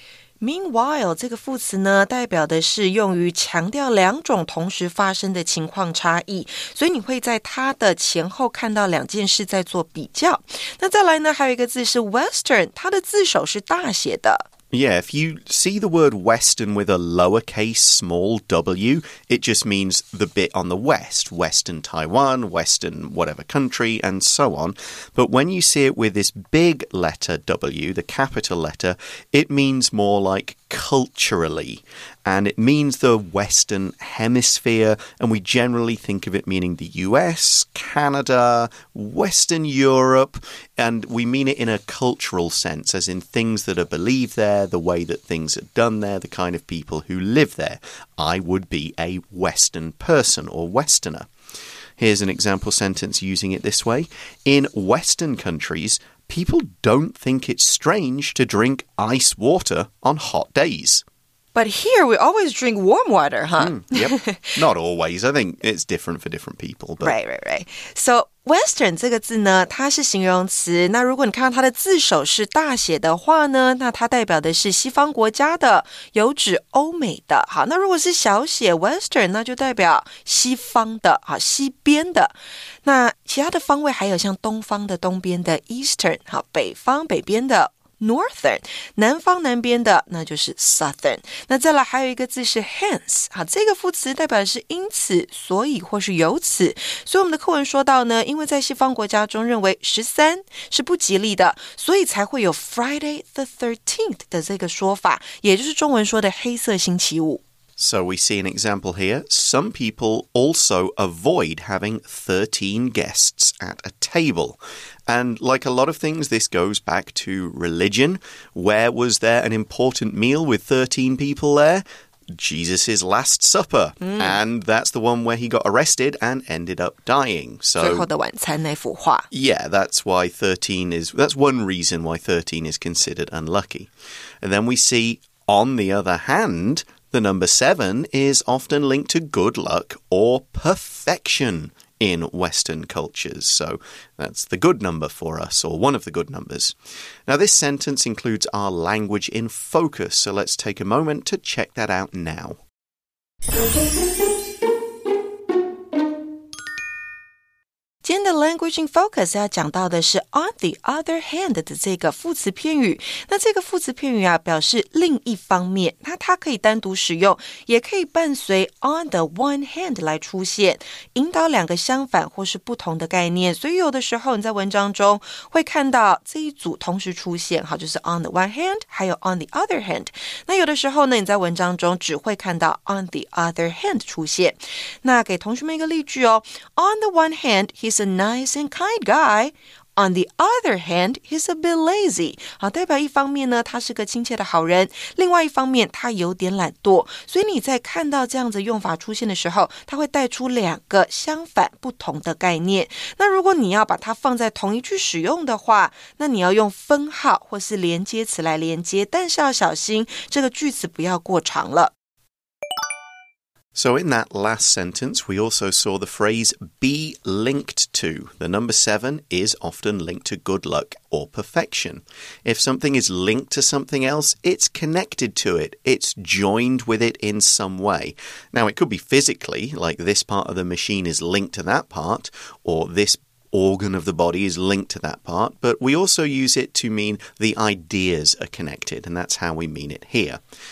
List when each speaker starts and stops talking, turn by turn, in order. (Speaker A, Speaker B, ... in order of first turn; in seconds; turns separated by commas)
Speaker A: 0.4-14.5, Speaker B: 14.7-51.3, Speaker B: 52.0-61.0, Speaker A: 61.5-64.6, Speaker B: 63.6-67.1, Speaker A: 67.0-107.4, Speaker B: 107.8-128.1, Speaker A: 124.0-124.4, Speaker A: 127.8-129.3, Speaker B: 129.3-133.9, Speaker B: 134.4-146.7, Speaker B: 147.3-152.6, Speaker A: 158.0-211.9, Speaker B: 213.7-240.4